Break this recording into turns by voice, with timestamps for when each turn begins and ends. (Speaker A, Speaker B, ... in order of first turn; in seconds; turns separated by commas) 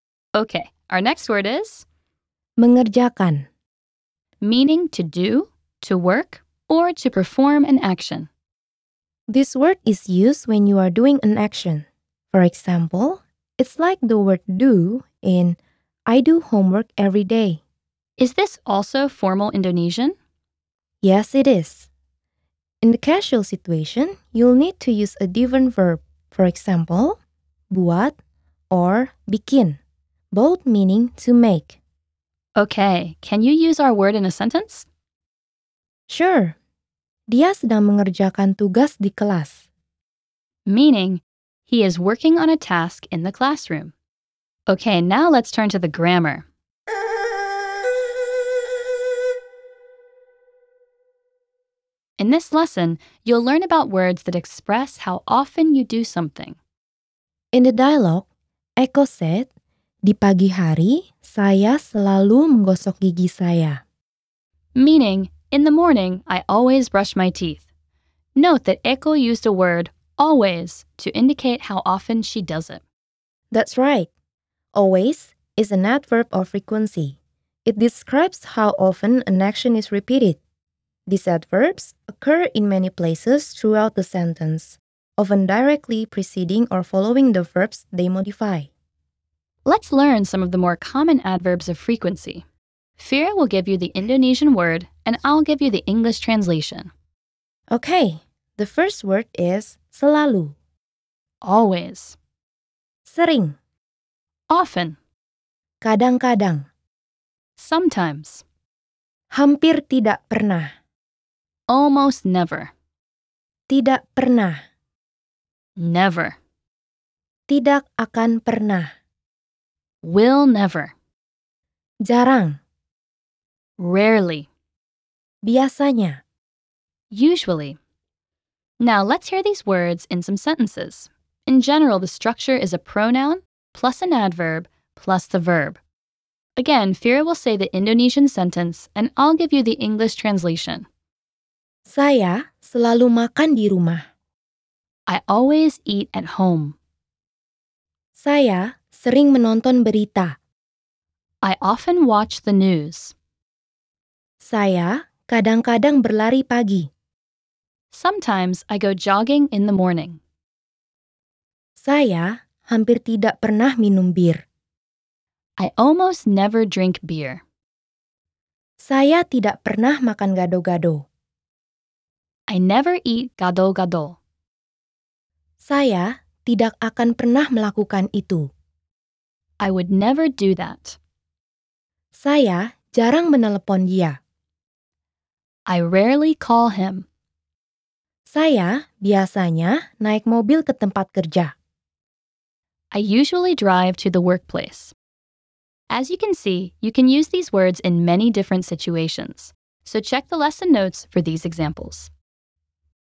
Speaker A: 0.3-1.8, Speaker B: 2.6-3.5, Speaker A: 4.4-8.3, Speaker B: 9.3-17.6, Speaker A: 18.2-20.1, Speaker B: 21.0-21.9, Speaker B: 22.8-27.2, Speaker B: 27.7-28.2, Speaker B: 28.7-29.8, Speaker B: 30.3-31.8, Speaker A: 32.6-34.9, Speaker B: 36.1-36.5, Speaker B: 37.3-39.6, Speaker A: 40.6-43.9, Speaker A: 44.7-46.4, Speaker A: 52.2-56.6, Speaker B: 57.5-58.2, Speaker B: 58.8-59.5, Speaker B: 60.0-63.8, Speaker A: 64.7-67.6, Speaker A: 68.3-72.8, Speaker B: 73.5-74.1, Speaker B: 74.7-80.4, Speaker B: 81.1-88.7, Speaker A: 89.6-92.4, Speaker A: 93.0-96.9, Speaker B: 97.7-100.5, Speaker A: 101.4-102.2, Speaker B: 103.0-103.5, Speaker A: 104.5-105.0, Speaker B: 105.8-106.7, Speaker A: 107.6-108.4, Speaker B: 109.3-110.7, Speaker A: 111.7-112.7, Speaker B: 113.7-114.6, Speaker A: 115.8-116.4, Speaker B: 117.5-118.9, Speaker A: 120.0-120.9, Speaker B: 122.0-122.6, Speaker A: 123.8-124.5, Speaker B: 125.4-126.2, Speaker A: 127.1-127.8, Speaker A: 128.8-135.8, Speaker A: 136.6-140.8, Speaker B: 141.8-144.0, Speaker A: 145.1-146.8, Speaker B: 148.1-150.4, Speaker A: 151.4-153.1, Speaker B: 154.4-156.9, Speaker A: 157.9-160.2, Speaker B: 161.8-164.4, Speaker A: 165.6-167.4, Speaker B: 168.8-171.0, Speaker A: 172.5-174.2, Speaker B: 175.6-178.5, Speaker A: 179.6-181.0, Speaker B: 182.1-184.2, Speaker A: 185.7-187.1, Speaker B: 188.3-191.5, Speaker A: 192.9-194.9, Speaker A: 195.9-202.1